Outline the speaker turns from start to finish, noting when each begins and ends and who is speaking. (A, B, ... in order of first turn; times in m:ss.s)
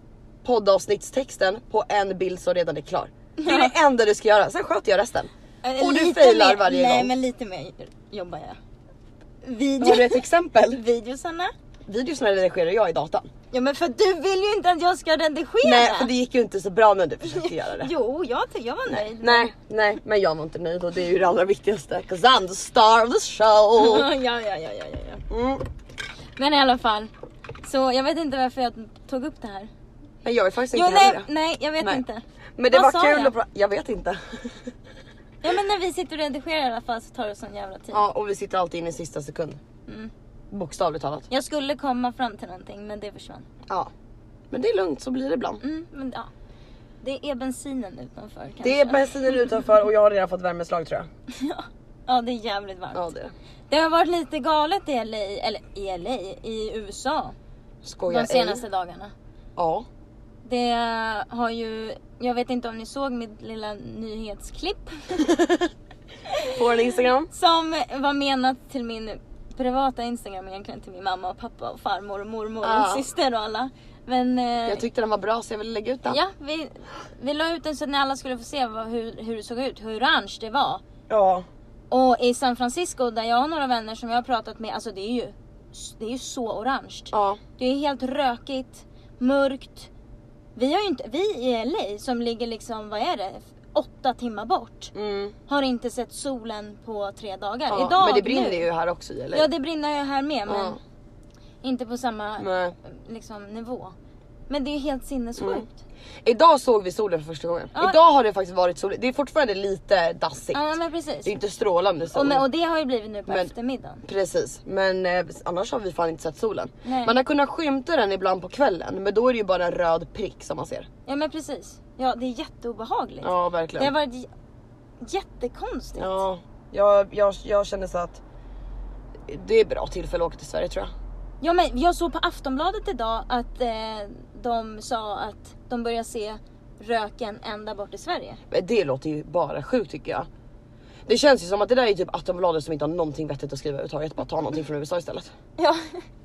0:00.4-0:07.1 A
0:03.4-0:03.7 B
0:05.6-0:08.6 B
0:09.4-0:11.5 B
0:09.8-0:10.8 A
0:11.9-0:13.3 A
0:13.5-0:16.1 B
0:15.6-0:17.9 A
0:17.3-0:19.5 B
0:18.9-0:24.1 A
0:23.8-0:25.2 B
0:25.3-0:25.6 A
0:26.4-0:27.1 B
0:27.6-0:29.7 B
0:30.2-0:31.3 A
0:30.7-0:33.4 B
0:32.6-0:34.7 A
0:35.4-0:38.0 B
0:37.9-0:39.6 A
0:40.5-0:41.3 A
0:41.3-0:43.5 B
0:44.5-0:45.6 A
0:45.6-0:46.3 B
0:47.0-0:49.5 B
0:48.6-0:51.1 A
0:51.3-0:53.0 B
0:52.9-0:53.3 A
0:53.7-0:57.4 B
0:57.8-0:58.6 A
0:58.1-0:59.1 B
0:59.6-0:59.9 A
1:00.4-1:05.3 B
1:05.2-1:05.7 A
1:06.3-1:06.6 B
1:06.5-1:07.3 A
1:07.3-1:14.8 B
1:12.6-1:13.1 A
1:14.7-1:16.2 A
1:16.1-1:20.8 B
1:21.1-1:21.5 A
1:21.9-1:29.9 B
1:27.1-1:27.4 A
1:30.6-1:34.9 B
1:34.9-1:35.4 A
1:35.5-1:38.7 B
1:37.7-1:39.5 A
1:39.3-1:40.8 B
1:40.5-1:40.8 A
1:41.6-1:43.9 B
1:42.4-1:42.8 A
1:44.5-1:45.8 B
1:45.4-1:45.7 A
1:46.2-1:50.6 A
1:50.5-1:51.3 B
1:51.2-1:52.4 A
1:52.1-1:54.0 B
1:53.3-1:53.5 A
1:54.0-2:00.9 A
1:56.8-1:57.1 B
2:01.1-2:04.3 B
2:03.2-2:03.9 A
2:05.0-2:06.2 B
2:06.0-2:08.2 A
2:09.3-2:10.9 A
2:11.4-2:18.4 B
2:18.5-2:20.3 A
2:21.1-2:25.3 A
2:25.6-2:26.0 B